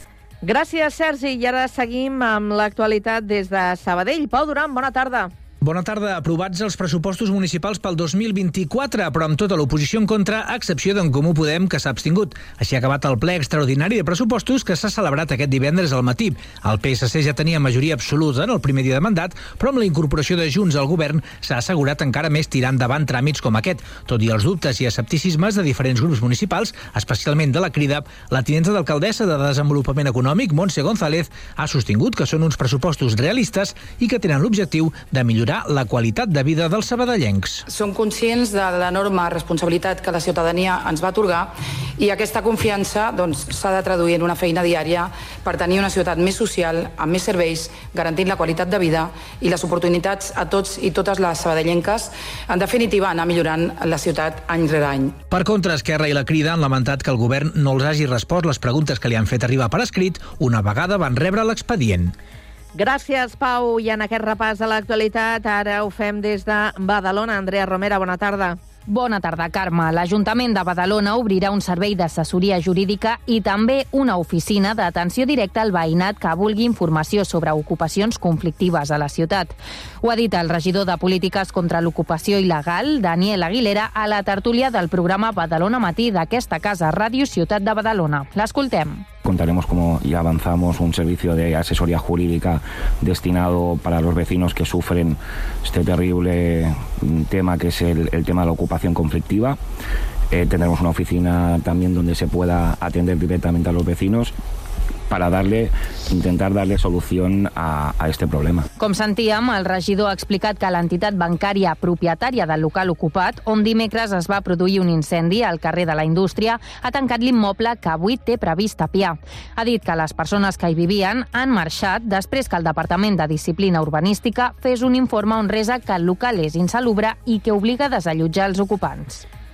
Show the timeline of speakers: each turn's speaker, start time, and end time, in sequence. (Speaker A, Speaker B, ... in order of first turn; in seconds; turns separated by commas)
Speaker A: 0.4-5.3, Speaker B: 5.6-37.6, Speaker C: 37.7-55.1, Speaker B: 55.3-62.1, Speaker A: 62.7-68.6, Speaker D: 68.9-89.1, Speaker E: 89.2-99.6, Speaker E: 100.3-104.3, Speaker E: 105.1-108.6, Speaker D: 108.8-129.2